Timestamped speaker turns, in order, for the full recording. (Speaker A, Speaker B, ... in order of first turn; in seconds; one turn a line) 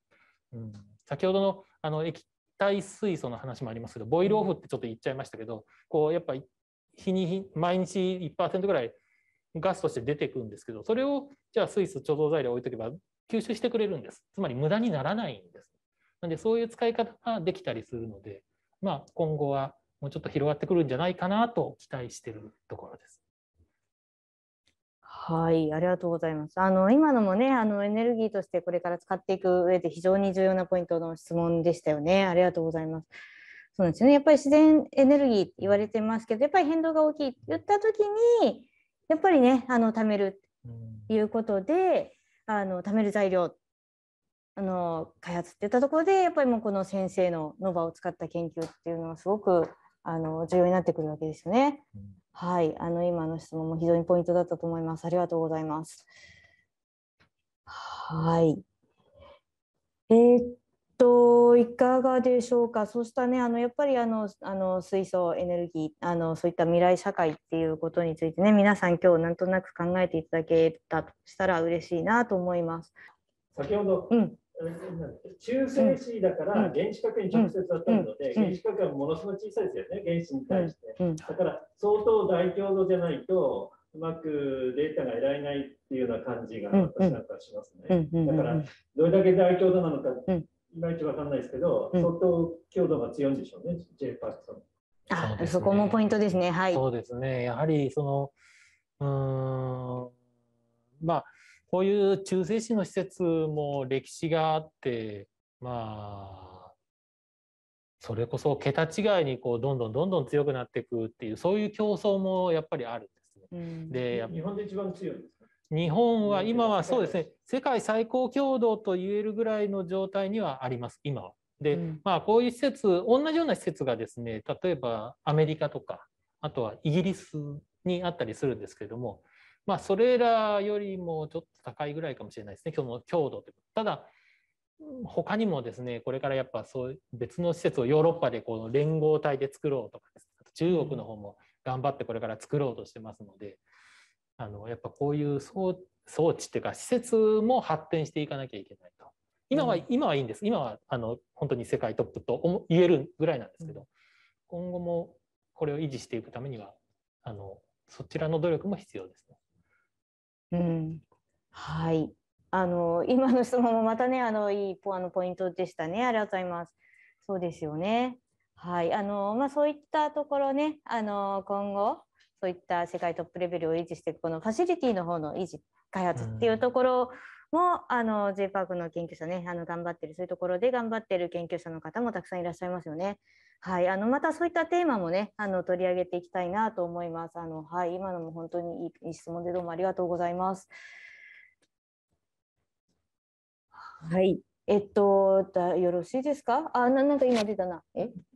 Speaker A: 0.5-9.0
Speaker A: 9.5-15.7
Speaker A: 16.2-23.2
Speaker B: 25.1-33.1
Speaker B: 33.7-40.4
Speaker A: 40.6-41.1
Speaker B: 41.1-43.6
Speaker B: 44.6-56.1
Speaker B: 57.7-58.6
Speaker B: 60.1-72.9
Speaker C: 73.5-94.6
Speaker B: 74.1-74.3
Speaker B: 77.3-78.5
Speaker B: 80.5-81.2
Speaker B: 86.7-87.2
Speaker B: 87.9-88.7
Speaker B: 95.1-96.8
Speaker A: 95.2-96.1
Speaker A: 96.7-98.3
Speaker A: 99.0-100.1
Speaker A: 101.0-106.7
Speaker A: 108.0-114.4
Speaker B: 113.5-114.0
Speaker C: 114.1-115.5
Speaker A: 115.7-134.1
Speaker C: 116.2-117.3
Speaker B: 121.7-122.0
Speaker A: 134.8-143.6
Speaker A: 144.4-153.9
Speaker B: 149.6-149.8
Speaker A: 154.5-159.4
Speaker B: 160.5-161.0
Speaker B: 161.5-190.7
Speaker A: 176.2-176.7
Speaker B: 193.9-198.2